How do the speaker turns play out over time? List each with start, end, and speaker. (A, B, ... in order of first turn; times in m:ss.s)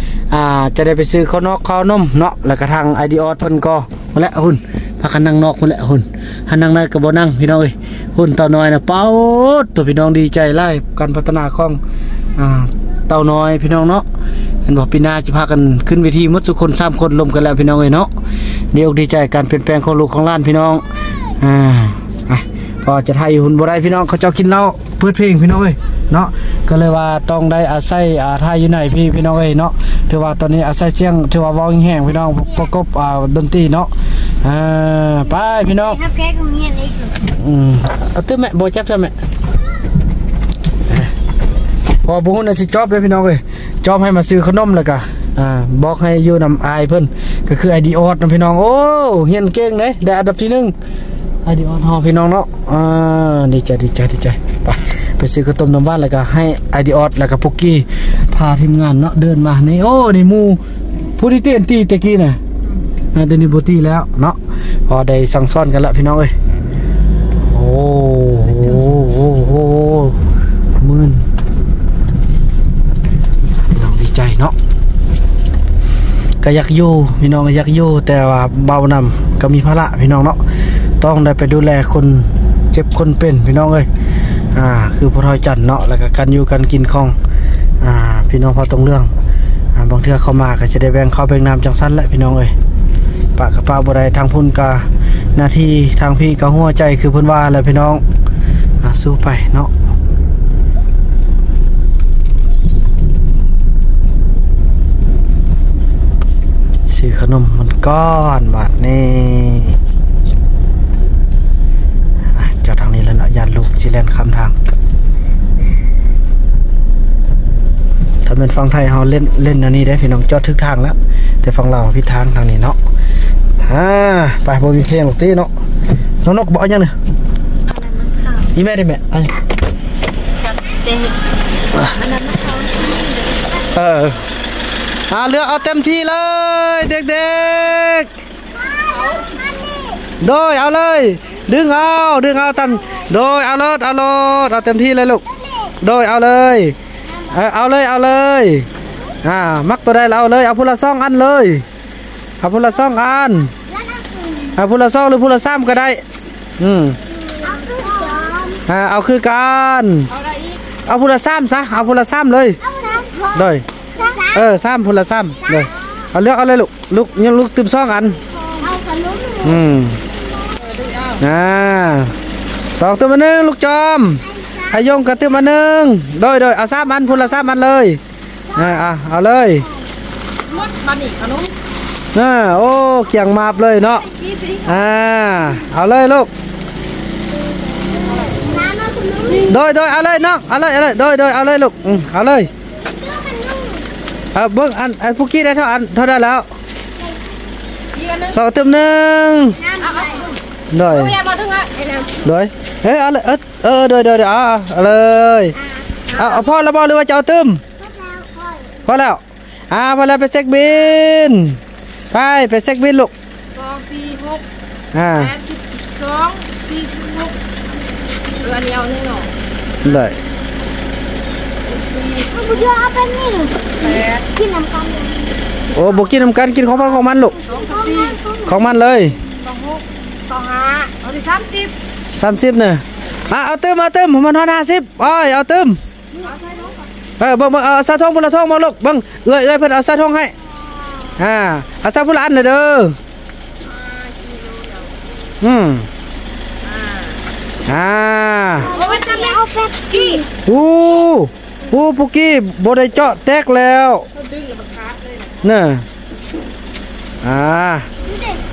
0:00.3-0:11.8 A
0:12.4-0:14.0 A
0:14.6-0:18.1 A
0:18.7-0:20.8 A
0:21.4-0:33.9 A
0:34.4-0:36.0 A
0:35.6-0:37.2 B
0:37.3-0:39.1 A
0:40.9-0:41.1 A
0:42.0-0:50.7 A
0:51.4-1:00.6 A
1:01.2-1:02.4 A
1:03.1-1:06.3 A
1:07.4-1:10.2 A
1:10.8-1:11.2 A
1:13.7-1:14.5 A
1:16.4-1:20.4 A
1:21.0-1:23.9 A
1:24.5-1:27.1 A
1:27.8-1:29.1 A
1:29.7-1:32.5 A
1:33.4-1:34.8 A
1:35.4-1:38.0 A
1:38.8-1:39.7 A
1:46.9-1:49.8 A
1:52.3-1:54.5 A
1:58.2-2:02.8 A
2:03.6-2:05.5 A
2:06.2-2:06.9 A
2:07.6-2:08.5 B
2:08.5-2:09.4 A
2:10.4-2:11.1 B
2:11.8-2:13.3 B
2:13.7-2:14.2 A
2:15.1-2:18.1 A
2:20.2-2:25.2 A
2:25.8-2:26.8 A
2:27.3-2:28.7 A
2:29.2-2:31.6 A
2:32.4-2:33.5 A
2:34.6-2:36.0 A
2:36.6-2:37.0 A
2:37.4-2:38.6 B
2:38.7-2:40.1 A
2:40.1-2:40.6 C
2:40.8-2:42.6 A
2:42.8-2:43.3 B
2:43.3-2:43.6 A
2:44.0-2:44.3 B
2:44.3-2:48.2 A
2:48.6-2:49.5 B
2:49.4-2:50.0 A
2:50.6-2:51.2 C
2:51.2-2:52.1 A
2:52.7-2:58.0 A
2:58.5-2:59.7 A
3:00.5-3:01.5 C
3:02.1-3:04.0 A
3:04.2-3:04.6 C
3:04.6-3:06.3 A
3:08.5-3:09.5 B
3:09.4-3:12.5 A
3:13.1-3:13.8 B
3:14.3-3:16.4 A
3:17.9-3:18.4 C
3:18.3-3:19.6 A
3:19.8-3:20.4 C
3:20.7-3:21.2 A
3:20.9-3:21.7 C
3:22.2-3:25.5 A
3:26.1-3:26.4 C
3:26.1-3:27.6 A
3:28.2-3:28.7 B
3:28.8-3:31.6 A
3:32.1-3:33.1 A
3:33.5-3:34.4 C
3:34.9-3:35.3 A
3:35.1-3:37.4 C
3:38.4-3:39.3 C
3:39.8-3:40.2 A
3:41.7-3:42.6 C
3:42.5-3:43.6 B
3:43.8-3:44.3 C
3:44.4-3:45.2 B
3:45.7-3:47.4 A
3:47.4-3:48.2 C
3:48.4-3:49.2 A
3:49.2-3:51.7 C
3:52.2-3:55.8 A
3:56.1-3:56.8 C
3:57.2-4:00.3 A
4:01.2-4:03.0 A
4:03.6-4:04.9 C
4:05.4-4:05.9 A
4:06.6-4:07.1 C
4:07.7-4:08.7 A
4:08.7-4:09.4 C
4:08.8-4:10.2 B
4:10.4-4:14.0 A
4:14.1-4:15.4 C
4:15.4-4:15.8 A
4:17.2-4:17.9 A